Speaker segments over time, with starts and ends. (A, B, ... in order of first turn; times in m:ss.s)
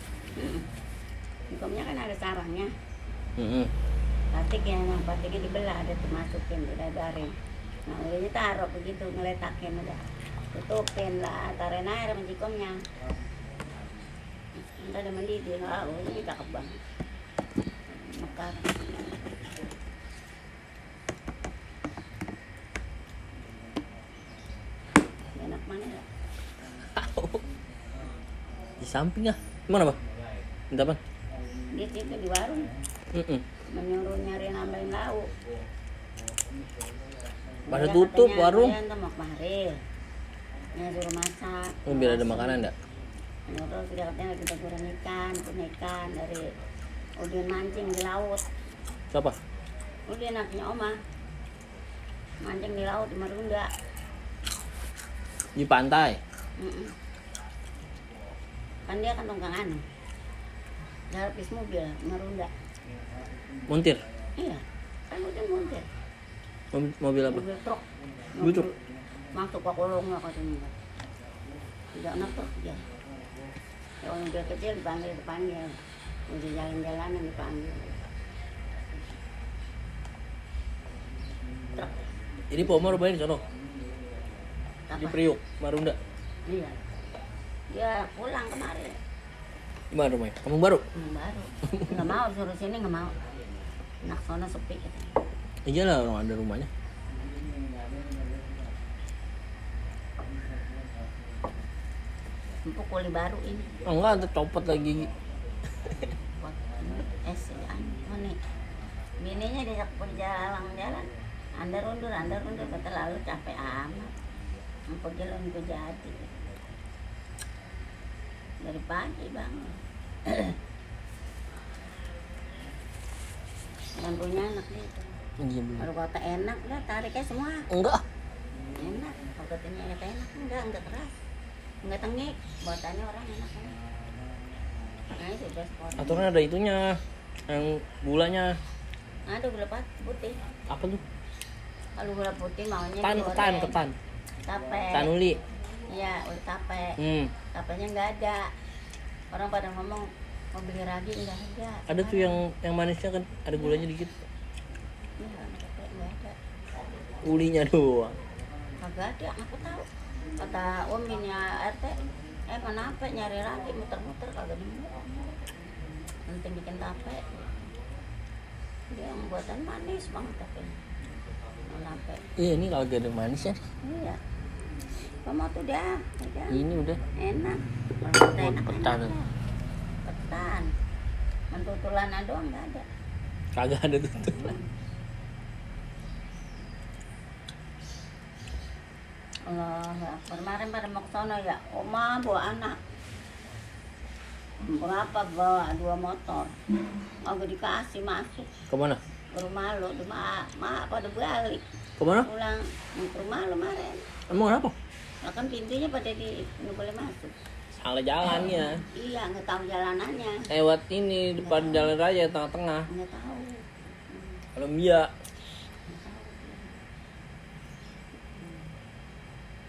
0:00.4-0:00.7 A
0:01.5-0:02.7 A
0:03.4-0:03.7 B
0:04.3-0:07.3 A
0:07.8-0:12.8 A
0:14.6-0:16.7 A
0:17.9-0:18.7 A
0:25.3-0:26.0 A
0:27.0-0:27.4 B
0:28.8-0:30.0 B
0:30.7-0:31.0 B
0:31.7-0:32.7 A
0:33.1-0:33.4 B
0:33.7-0:35.3 A
0:37.6-0:39.7 A
0:37.7-0:38.8 B
0:40.7-0:42.6 A
0:41.8-0:42.7 B
0:43.5-0:46.4 A
0:47.2-0:48.4 A
0:50.1-0:51.0 A
0:52.4-0:53.7 A
0:55.6-0:56.2 B
0:56.6-0:56.9 A
0:58.9-0:59.8 A
1:01.1-1:02.5 A
1:03.7-1:04.0 B
1:04.4-1:05.9 A
1:06.7-1:07.4 B
1:07.3-1:08.8 A
1:08.4-1:08.7 B
1:09.3-1:10.7 A
1:11.9-1:12.8 A
1:14.0-1:15.8 A
1:16.3-1:18.0 A
1:21.7-1:22.0 A
1:22.5-1:23.4 B
1:24.9-1:25.2 A
1:25.0-1:26.0 B
1:26.5-1:26.8 A
1:27.7-1:29.0 A
1:29.9-1:30.8 B
1:30.9-1:33.2 A
1:34.0-1:35.1 A
1:35.6-1:36.7 B
1:42.6-1:43.7 A
1:43.8-1:45.1 B
1:46.1-1:48.4 A
1:49.2-1:51.1 A
1:51.6-1:54.1 A
1:54.9-1:56.3 A
1:58.6-2:00.6 A
2:04.0-2:05.1 A
2:05.4-2:05.9 B
2:05.8-2:07.6 A
2:07.7-2:08.0 B
2:08.7-2:11.1 A
2:11.8-2:13.8 A
2:15.1-2:16.3 A
2:16.0-2:18.5 B
2:19.3-2:20.4 A
2:20.7-2:21.0 B
2:22.0-2:23.8 A
2:23.0-2:24.0 B
2:24.4-2:25.1 A
2:24.9-2:25.4 B
2:25.9-2:27.0 A
2:27.0-2:27.3 B
2:27.5-2:28.5 A
2:29.3-2:32.4 A
2:31.9-2:34.2 B
2:33.6-2:33.8 A
2:35.2-2:36.4 A
2:37.2-2:38.2 B
2:38.8-2:45.3 A
2:46.2-2:47.4 A
2:48.9-2:50.8 A
2:51.7-2:52.2 A
2:52.4-2:53.6 B
2:53.8-2:54.2 A
2:55.2-2:56.6 A
2:56.5-2:57.0 B
2:57.2-2:59.3 A
2:58.3-2:59.1 B
3:00.0-3:00.7 A
3:01.5-3:02.8 A
3:03.6-3:04.5 B
3:04.3-3:04.7 A
3:09.5-3:12.8 A
3:14.6-3:16.5 A
3:17.2-3:18.5 A
3:18.7-3:19.0 B
3:19.3-3:21.6 A
3:22.0-3:22.3 B
3:22.2-3:24.0 A
3:24.3-3:24.7 B
3:25.2-3:27.3 A
3:27.8-3:28.8 B
3:28.5-3:30.4 A
3:30.5-3:32.9 B
3:31.4-3:31.9 A
3:32.9-3:34.4 A
3:34.6-3:35.1 B
3:35.9-3:36.8 A
3:38.3-3:38.7 A